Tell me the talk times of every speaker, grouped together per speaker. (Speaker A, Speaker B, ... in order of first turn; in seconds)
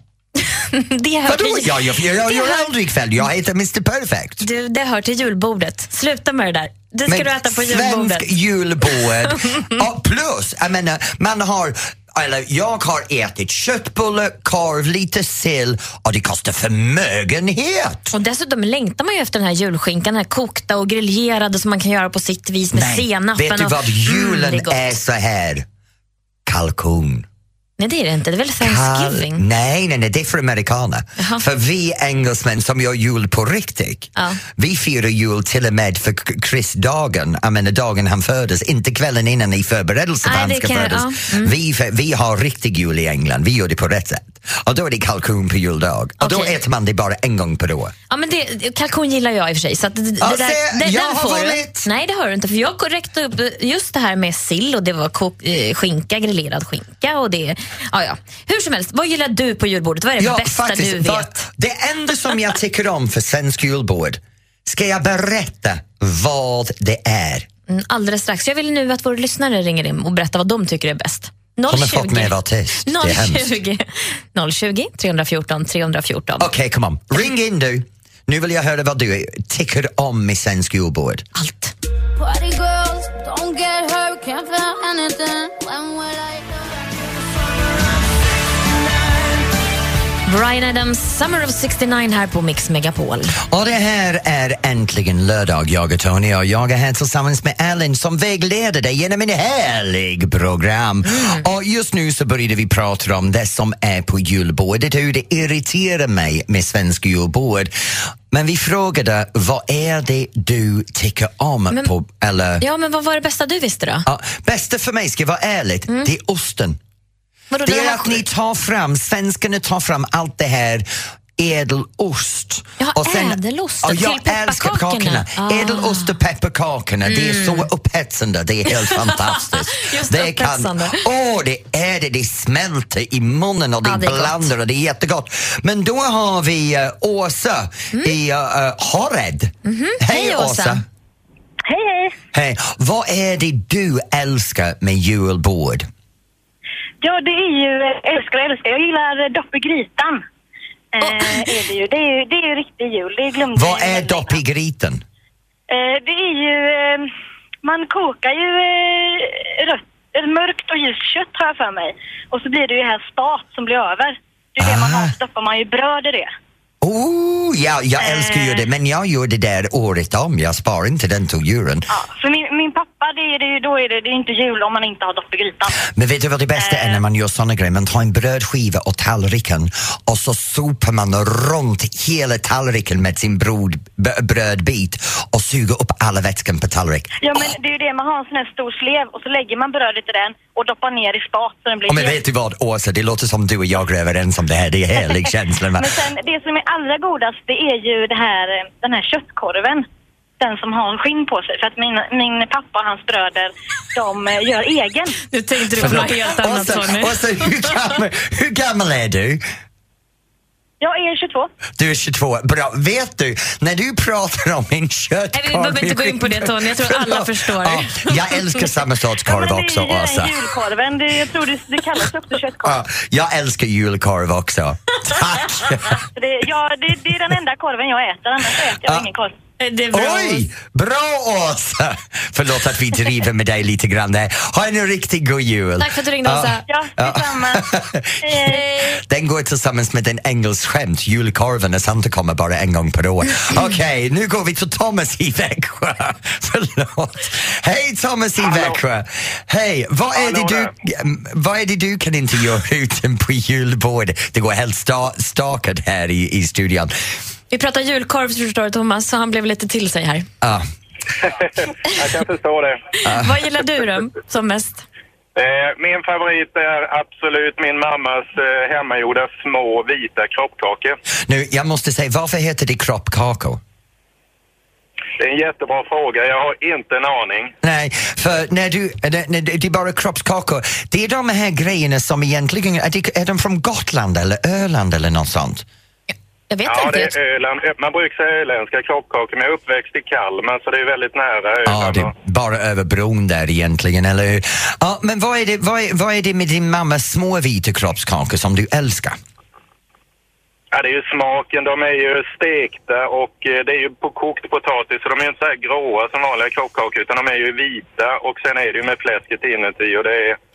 Speaker A: 0.4-2.7, 4.4-8.3, 18.1-25.0, 27.8-29.4, 31.2-31.4, 34.1-34.4, 40.2-41.5, 46.2-46.6, 48.1-61.5, 67.7-76.5, 81.3-81.7, 90.3-93.4, 101.0-101.4, 112.6-114.0, 117.5-118.2, 122.8-126.2, 127.1-127.7, 128.7-131.0, 133.8-134.5, 139.6-140.8, 205.3-207.7, 215.3-218.7, 229.6-230.5, 235.8-236.6, 257.5-260.2, 263.0-264.8, 286.5-287.1
Speaker B: 1.3-4.5, 7.1-18.1, 22.7-25.6, 26.4-27.2, 28.6-47.9, 50.2-51.9, 60.2-67.5, 71.7-73.5, 76.4-81.2, 93.5-107.7, 108.3-112.6, 114.0-116.8, 117.6-120.8, 121.4-140.8, 142.3-145.9, 153.5-155.0, 164.6-165.1, 166.8-171.9, 175.9-187.2, 191.9-196.0, 205.7-209.4, 211.8-220.4, 222.6-226.0, 228.8-229.1, 229.9-256.9, 263.0-263.4, 271.3-273.6, 277.6-285.6, 291.6-299.2
Speaker C: 82.2-86.9
Speaker D: 141.7-142.1, 147.0-150.2, 150.9-154.3, 155.7-157.1, 157.6-166.3, 168.0-168.6, 171.9-175.8, 176.6-177.0, 187.2-192.2, 195.7-199.8, 200.4-205.2, 210.8-211.5, 219.2-222.8, 226.2-229.3, 236.7-237.6, 238.2-238.9
Speaker E: 248.4-248.8, 250.1-250.7, 261.2-262.8, 265.4-270.9, 275.2-277.5, 286.6-292.1, 300.7-310.4